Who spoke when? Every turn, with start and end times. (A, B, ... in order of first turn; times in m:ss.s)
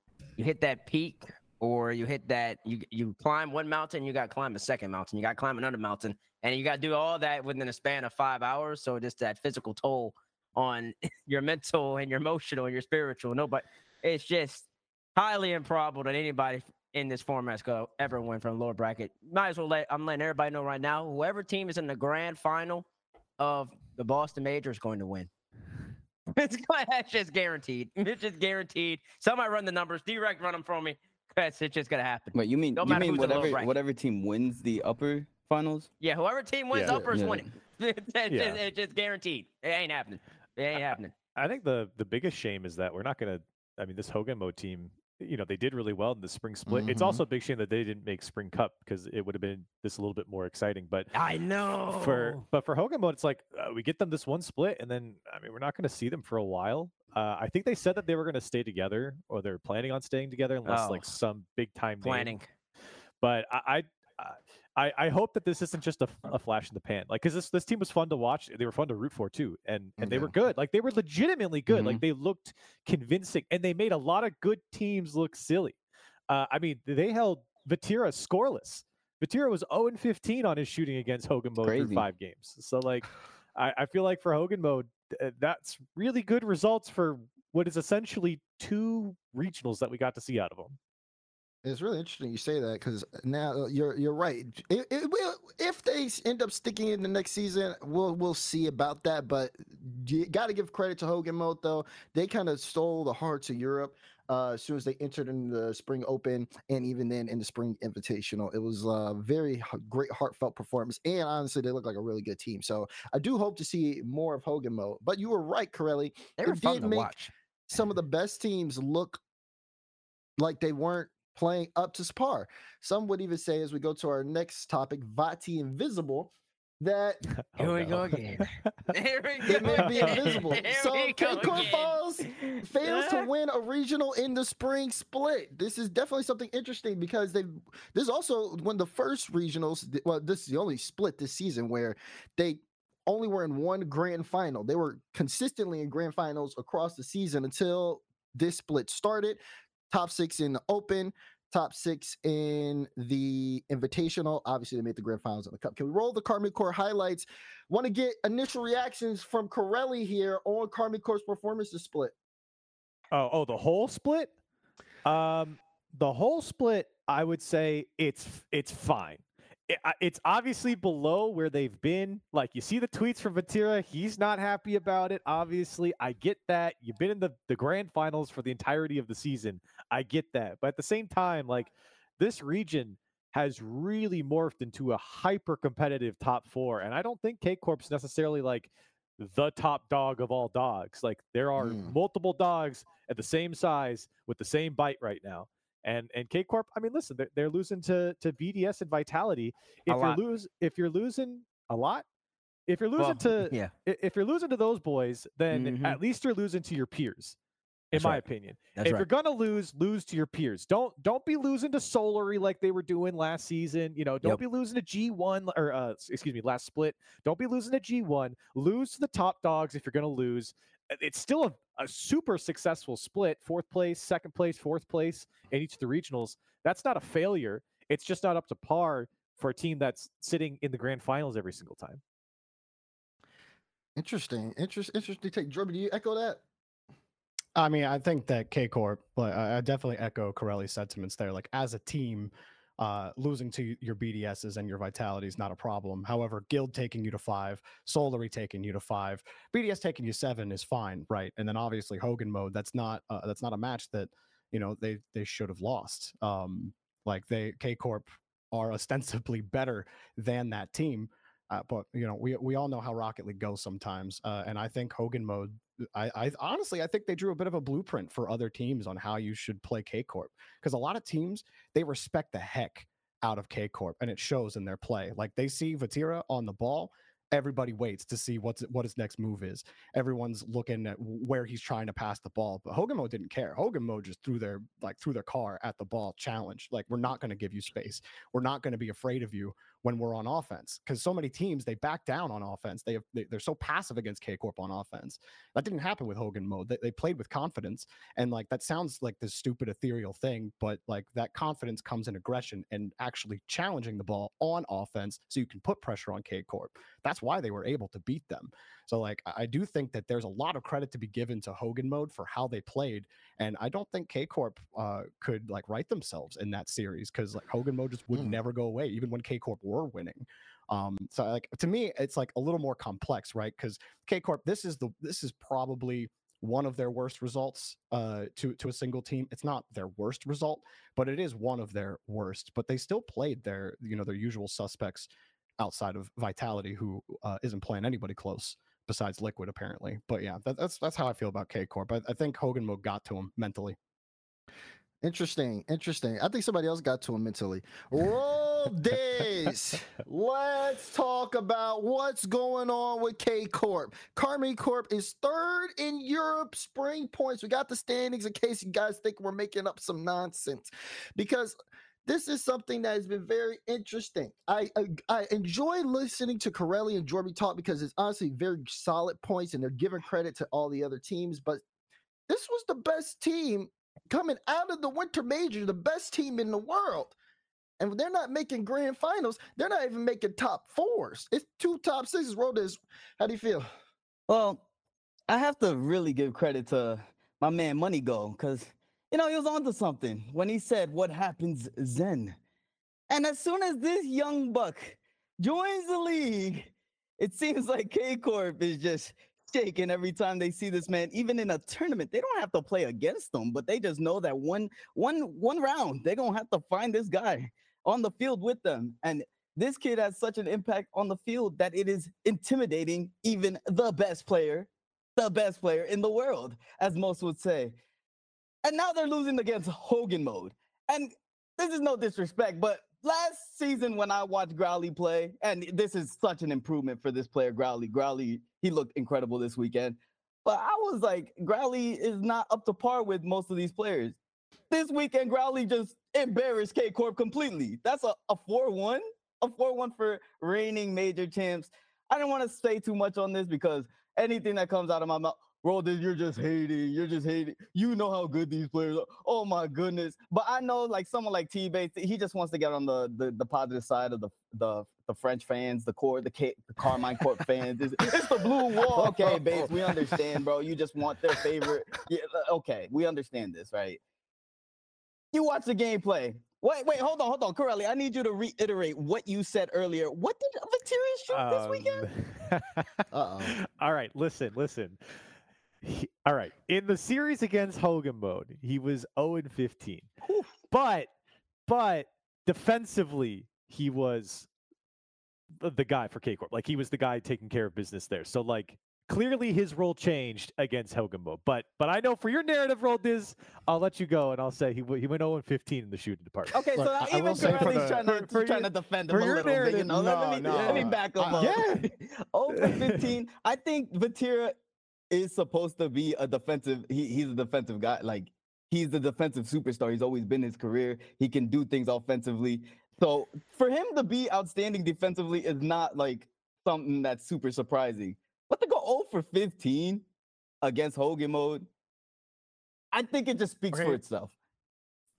0:00.4-0:22.9 A
0:23.4-0:25.3 A
0:26.3-0:33.7 A
0:32.3-0:35.9 B
0:36.0-0:41.1 A
0:36.7-0:37.0 C
0:36.8-0:37.5 B
0:38.3-0:38.6 C
0:40.7-0:51.1 C
0:46.7-0:47.2 D
0:51.1-0:52.4 A
0:51.9-1:02.3 C
1:00.7-1:01.1 A
1:02.0-1:02.5 A
1:03.2-1:15.8 C
1:10.0-1:10.3 D
1:11.7-1:12.0 B
1:16.3-1:30.8 C
1:21.6-1:22.0 B
1:31.6-1:57.1 D
1:56.4-1:57.3 A
1:57.7-1:59.2 D
2:00.4-2:07.3 D
2:07.6-2:08.5 C
2:07.6-2:13.3 A
2:09.4-2:29.4 D
2:10.1-2:10.5 C
2:29.9-2:42.1 D
2:43.1-2:44.3 C
2:45.0-3:22.0 C
3:11.6-3:11.9 D
3:19.9-3:20.2 A
3:22.7-3:27.4 C
3:23.0-3:23.7 A
3:25.5-3:26.0 A
3:27.9-3:52.0 C
3:27.9-3:28.2 A
3:28.8-3:29.1 A
3:54.0-3:56.4 D
3:57.6-5:43.8 E
5:45.0-6:11.6 D
6:12.3-6:17.2 D
6:17.8-6:23.7 D
6:24.3-6:24.6 B
6:25.3-6:32.4 B
6:33.1-6:57.8 B
6:58.6-7:14.2 B
7:14.7-7:44.0 B
7:45.3-7:52.1 B
7:51.3-7:55.3 C
7:53.1-7:53.5 D
7:55.8-8:00.1 C
8:00.7-8:01.1 C
8:01.7-8:04.5 C
8:05.6-8:21.8 C
8:16.5-8:24.6 B
8:16.8-8:18.1 E
8:19.2-8:21.8 E
8:22.5-8:23.1 C
8:25.1-8:40.0 B
8:40.6-8:41.7 B
8:42.9-8:44.3 B
8:43.7-8:44.0 E